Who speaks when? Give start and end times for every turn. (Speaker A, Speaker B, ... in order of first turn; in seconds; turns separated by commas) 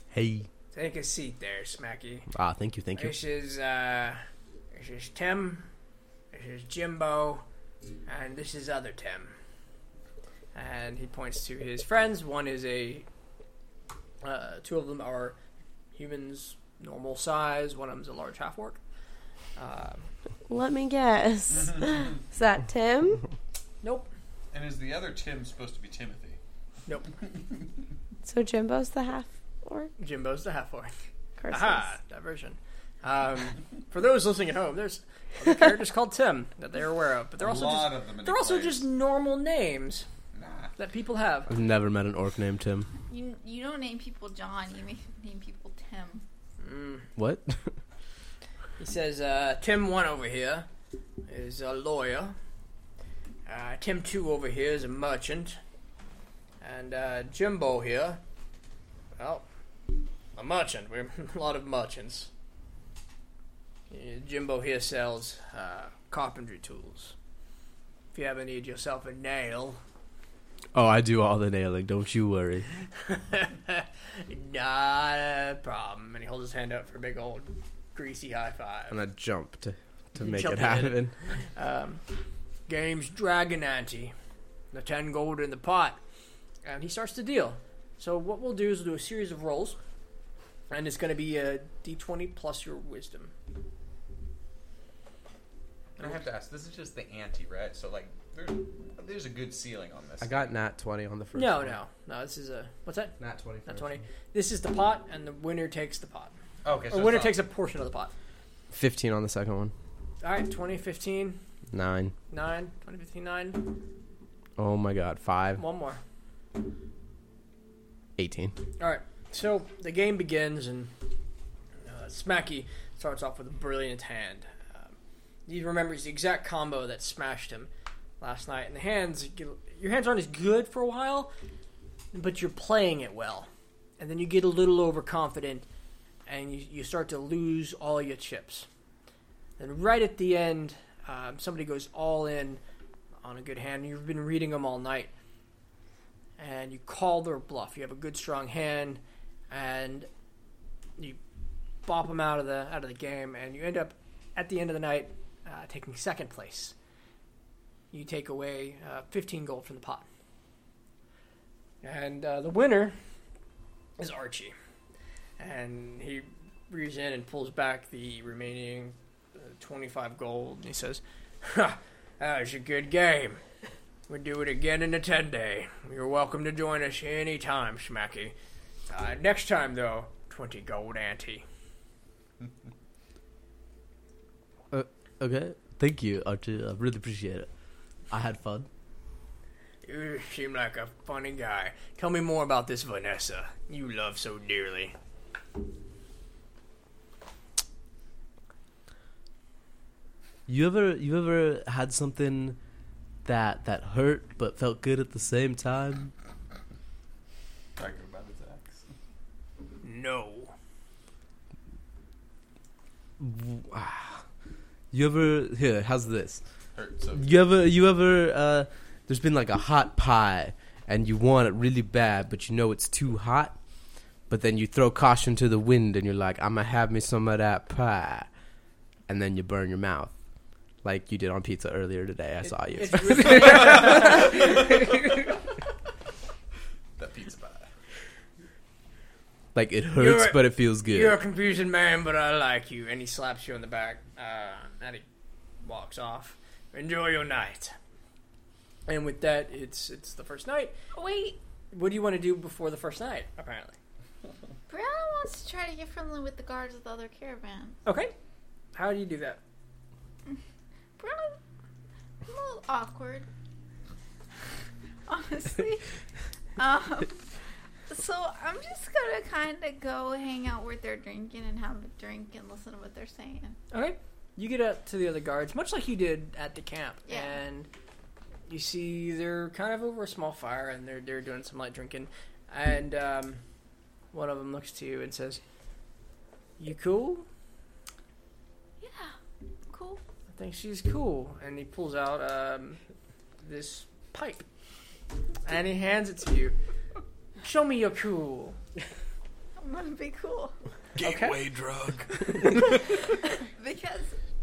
Speaker A: 0.1-0.5, Speaker B: 0.7-2.3, Speaker A: 2.3-3.2, Speaker B: 2.9-5.7, Speaker B: 6.3-7.4, Speaker B: 8.1-9.3, Speaker B: 10.5-13.1, Speaker B: 14.2-15.4, Speaker B: 15.9-18.8, Speaker B: 19.6-20.1, Speaker C: 20.5-23.2, Speaker B: 23.8-24.1, Speaker D: 24.5-26.4, Speaker C: 28.2-29.9, Speaker B: 30.0-30.9, Speaker C: 31.4-31.8, Speaker B: 31.5-40.1, Speaker D: 37.4-38.9, Speaker D: 40.3-40.7, Speaker B: 40.8-41.5, Speaker A: 41.5-42.9, Speaker E: 43.1-46.2, Speaker B: 46.6-47.1, Speaker A: 47.1-47.7, Speaker B: 48.8-50.7, Speaker B: 51.3-52.4, Speaker B: 53.5-55.6, Speaker B: 56.6-58.2, Speaker B: 59.2-59.5, Speaker B: 60.4-62.3, Speaker B: 63.9-67.1, Speaker B: 68.1-69.8, Speaker A: 70.7-72.7, Speaker B: 73.0-79.0, Speaker A: 78.9-81.1, Speaker B: 80.2-82.0, Speaker B: 82.7-84.1, Speaker B: 84.7-86.0, Speaker B: 86.6-89.8, Speaker B: 90.7-93.3, Speaker D: 96.0-100.3, Speaker A: 100.2-101.8, Speaker B: 101.3-106.3, Speaker A: 103.2-104.0, Speaker D: 106.6-107.4, Speaker B: 106.9-108.1, Speaker A: 108.7-109.7, Speaker B: 110.2-111.4, Speaker A: 111.7-112.1, Speaker B: 112.3-113.7, Speaker A: 114.6-115.6, Speaker B: 115.6-116.0, Speaker A: 118.2-118.5, Speaker B: 118.8-120.9, Speaker B: 121.8-124.9, Speaker B: 125.5-127.7, Speaker B: 128.2-131.3, Speaker B: 132.1-135.7, Speaker B: 136.3-138.7, Speaker B: 139.6-142.6, Speaker B: 143.2-145.1, Speaker B: 146.4-150.1, Speaker B: 151.8-156.7, Speaker B: 157.9-160.1, Speaker B: 161.8-163.0, Speaker B: 164.0-164.5, Speaker B: 165.4-173.4, Speaker B: 174.1-178.3, Speaker B: 178.9-181.4, Speaker A: 184.7-187.5, Speaker A: 188.1-188.7, Speaker B: 189.8-194.9, Speaker A: 200.5-202.6, Speaker A: 203.2-206.1, Speaker D: 207.8-208.9, Speaker B: 209.8-210.5, Speaker A: 213.2-214.2, Speaker A: 214.9-216.4, Speaker D: 216.8-217.2, Speaker A: 217.1-223.6, Speaker A: 224.3-228.3, Speaker A: 229.1-230.1, Speaker A: 230.8-234.4, Speaker B: 232.4-234.6, Speaker D: 237.0-237.7, Speaker A: 239.5-241.2, Speaker B: 240.0-245.0, Speaker B: 245.6-247.7, Speaker B: 248.9-250.8, Speaker E: 250.9-251.4, Speaker B: 251.7-253.8, Speaker E: 254.7-257.8, Speaker B: 257.8-258.1, Speaker B: 258.7-259.4, Speaker E: 261.0-261.4, Speaker E: 262.2-263.3, Speaker E: 265.1-265.8, Speaker E: 266.6-267.2, Speaker E: 267.9-273.6, Speaker B: 273.7-277.7, Speaker E: 277.1-277.4, Speaker B: 278.5-283.4, Speaker B: 284.1-285.4, Speaker B: 286.6-287.3, Speaker E: 288.8-289.1, Speaker E: 289.7-290.0, Speaker B: 290.3-292.8, Speaker B: 293.4-294.4, Speaker B: 295.4-296.6, Speaker B: 297.4-298.6, Speaker E: 299.6-300.5, Speaker D: 300.9-302.7, Speaker B: 301.0-301.4, Speaker E: 303.4-304.1